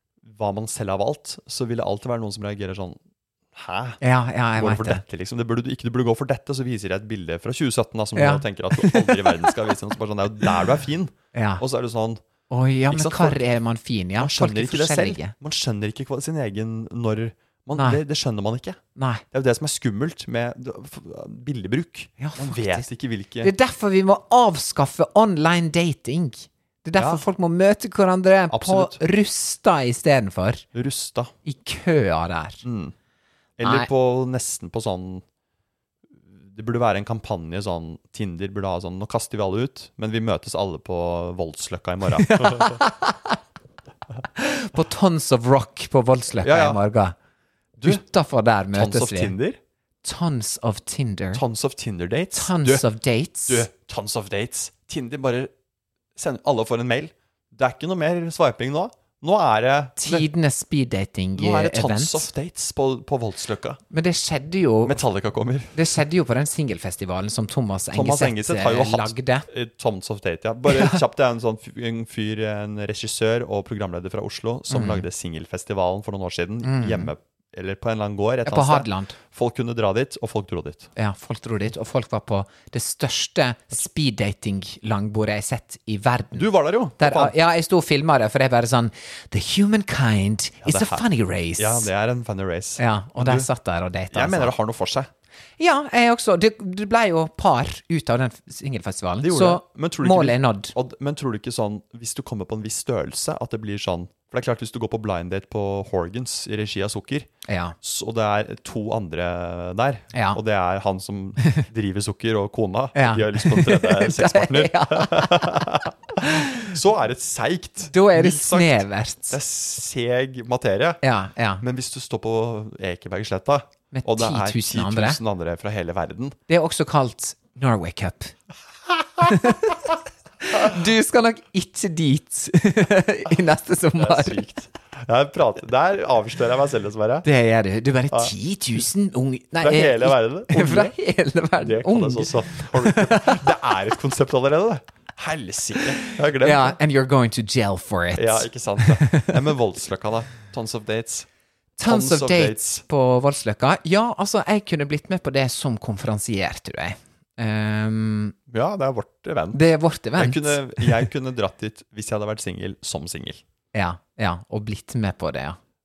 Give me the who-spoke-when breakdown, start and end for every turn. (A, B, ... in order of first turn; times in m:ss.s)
0:00.2-0:03.0 A
0:03.6-0:04.0 A
0:04.0-0:05.0 B
0:04.6-0:12.2 A
0:08.2-0:09.7 B
0:11.3-0:11.6 B
0:12.5-0:15.3 B
0:12.9-0:13.4 A
0:14.2-0:18.8 A
0:17.8-0:18.0 B
0:19.0-0:19.2 B
0:19.3-0:23.5 A
0:22.2-0:22.9 B
0:23.4-0:30.6 B
0:27.0-0:27.2 A
0:28.5-0:29.0 A
0:30.7-0:31.3 A
0:31.4-0:32.6 B
0:32.6-0:32.9 A
0:33.6-0:35.2 A
0:33.6-0:33.9 B
0:36.3-0:42.8 A
0:42.1-0:43.4 B
0:44.4-0:47.2 B
0:46.4-0:46.8 A
0:47.8-0:48.0 A
0:47.8-0:49.4 B
0:48.7-0:49.6 A
0:50.0-0:51.4 B
0:51.3-0:52.8 A
0:52.3-0:53.7 B
0:53.5-0:55.5 A
0:56.2-1:00.3 A
1:00.0-1:02.3 B
1:01.4-1:03.8 A
1:03.9-1:05.0 B
1:04.8-1:06.0 A
1:05.7-1:09.5 B
1:07.9-1:20.9 A
1:10.7-1:11.0 B
1:14.7-1:15.1 B
1:16.6-1:17.1 B
1:18.4-1:19.2 B
1:21.0-1:26.5 B
1:26.3-1:27.3 A
1:27.0-1:31.9 B
1:30.6-1:33.5 A
1:32.8-1:34.5 B
1:34.1-1:35.1 A
1:35.6-1:40.7 B
1:39.2-1:47.3 A
1:47.5-1:47.8 B
1:47.8-2:01.0 A
1:50.1-1:50.4 B
1:53.0-1:56.7 B
1:57.9-1:59.4 B
2:01.0-2:01.6 B
2:01.6-2:06.4 A
2:03.9-2:05.2 B
2:06.5-2:08.4 B
2:09.2-2:09.8 B
2:10.5-2:14.4 B
2:14.0-2:17.3 A
2:17.2-2:23.4 B
2:19.6-2:20.9 A
2:21.6-2:26.8 A
2:25.8-2:29.4 B
2:28.2-2:31.3 A
2:31.8-2:38.4 B
2:31.8-2:32.8 A
2:38.5-2:39.6 A
2:39.5-2:41.0 B
2:40.2-2:43.4 A
2:43.7-2:45.6 B